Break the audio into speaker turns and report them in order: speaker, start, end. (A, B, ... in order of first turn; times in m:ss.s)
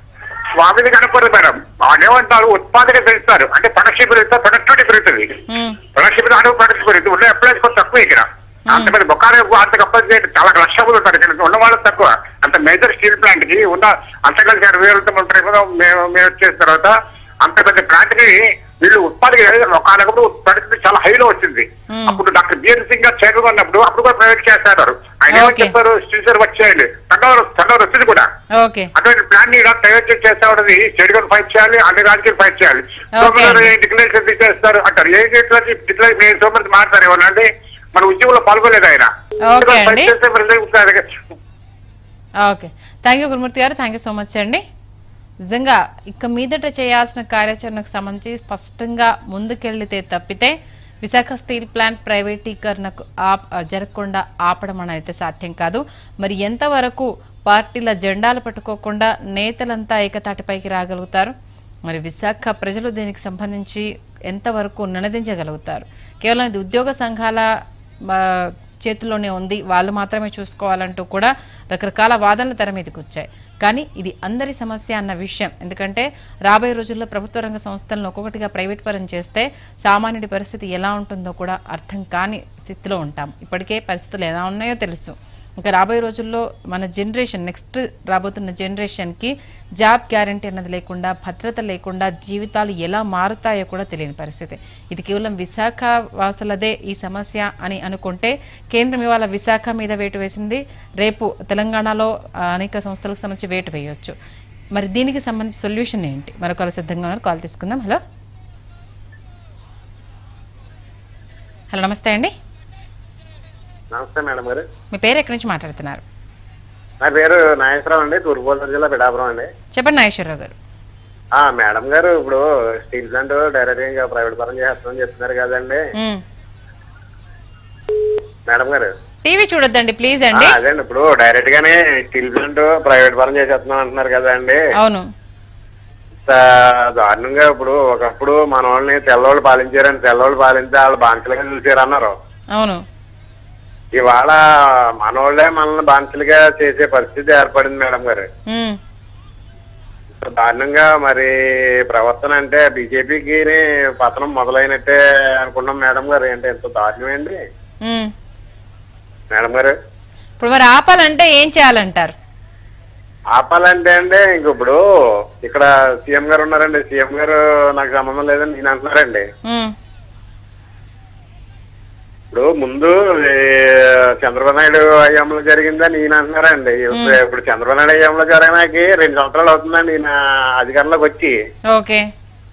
0:00.6-0:05.4 A
0:05.5-0:05.8 B
0:05.9-0:28.3 A
0:08.7-0:08.9 B
0:21.9-0:22.2 B
0:25.3-0:25.7 B
0:28.6-0:28.9 B
0:29.0-0:41.2 A
0:33.2-0:33.7 B
0:39.5-0:40.1 B
0:42.4-0:44.6 B
0:45.5-1:01.3 B
1:01.9-1:07.5 B
1:08.1-1:44.1 B
1:44.7-1:48.0 B
1:51.7-1:52.3 B
1:53.9-1:54.6 C
1:54.9-1:56.0 B
1:57.0-1:59.5 C
1:59.7-2:00.5 B
2:01.4-2:05.8 C
2:08.5-2:08.9 C
2:09.2-2:10.6 B
2:10.3-2:14.6 C
2:14.8-2:15.1 B
2:16.2-2:22.1 C
2:22.5-2:22.8 B
2:23.9-2:24.4 C
2:25.0-2:28.3 C
2:28.5-2:28.8 B
2:30.2-2:31.3 C
2:31.9-2:37.4 C
2:37.8-2:38.1 B
2:39.3-2:39.7 C
2:40.4-2:42.1 B
2:43.3-2:44.8 C
2:45.4-2:49.2 C
2:49.4-2:49.7 B
2:52.3-3:01.3 C
3:01.7-3:02.1 B